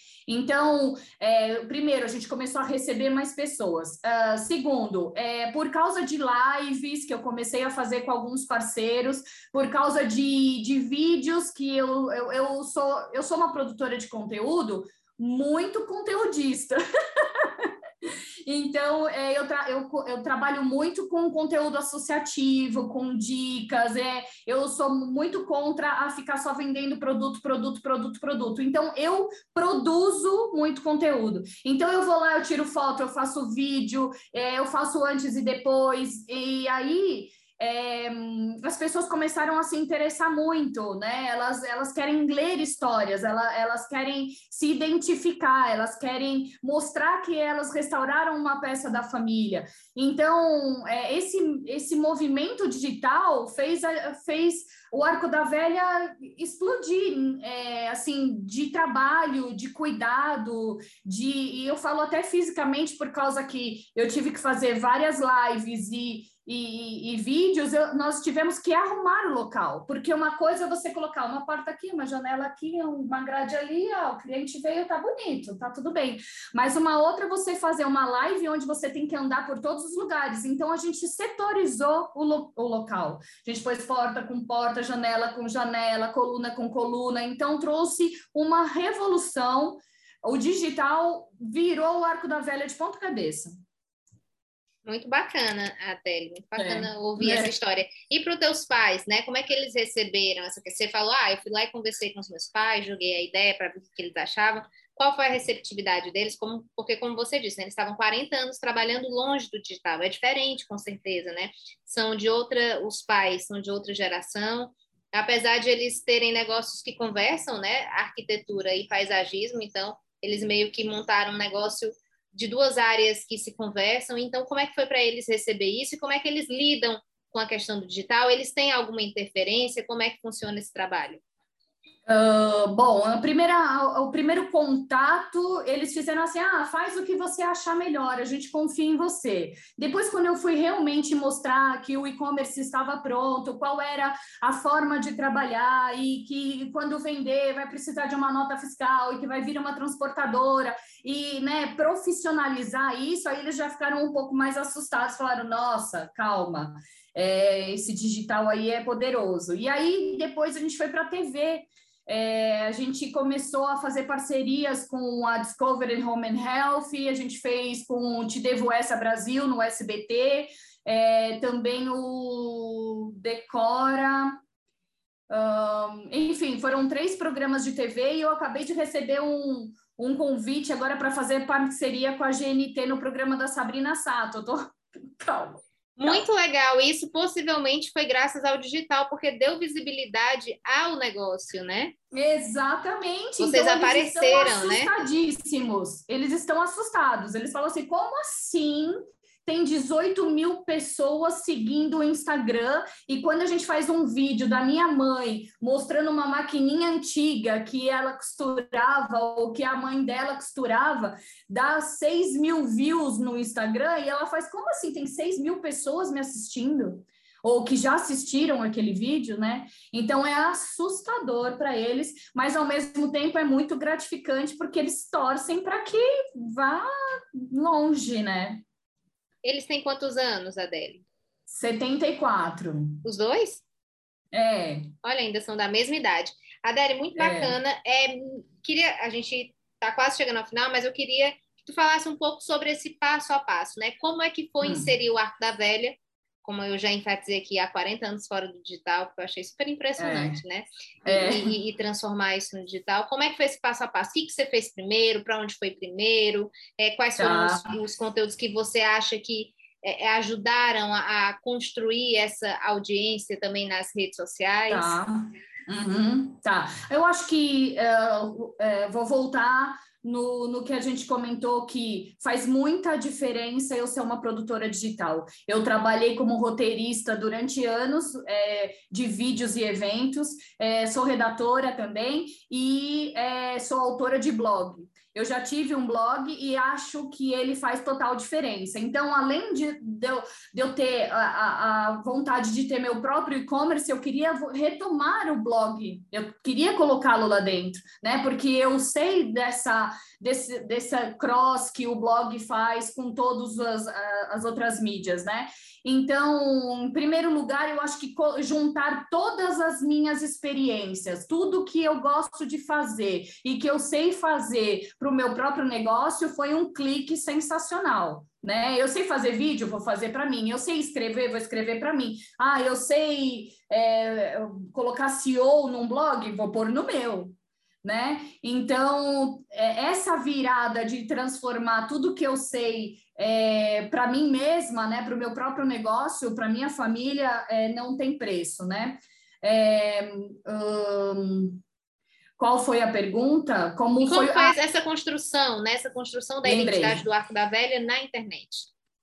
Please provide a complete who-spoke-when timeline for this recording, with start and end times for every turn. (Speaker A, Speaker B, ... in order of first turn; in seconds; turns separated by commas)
Speaker A: 0.3-17.7, Speaker A: 18.4-93.6, Speaker B: 94.8-131.2, Speaker A: 96.6-97.5, Speaker A: 132.1-174.4, Speaker A: 175.3-186.2, Speaker B: 186.0-191.9, Speaker A: 192.1-228.6, Speaker B: 193.4-194.9, Speaker B: 229.4-231.0, Speaker A: 231.5-233.0, Speaker B: 233.0-233.6, Speaker A: 234.3-234.9, Speaker B: 235.0-264.9, Speaker A: 237.2-237.6, Speaker A: 244.6-244.9, Speaker A: 250.0-250.4, Speaker A: 251.0-251.5, Speaker A: 257.2-257.7, Speaker A: 264.7-341.6, Speaker A: 342.4-344.5, Speaker B: 344.0-348.7, Speaker A: 346.4-347.0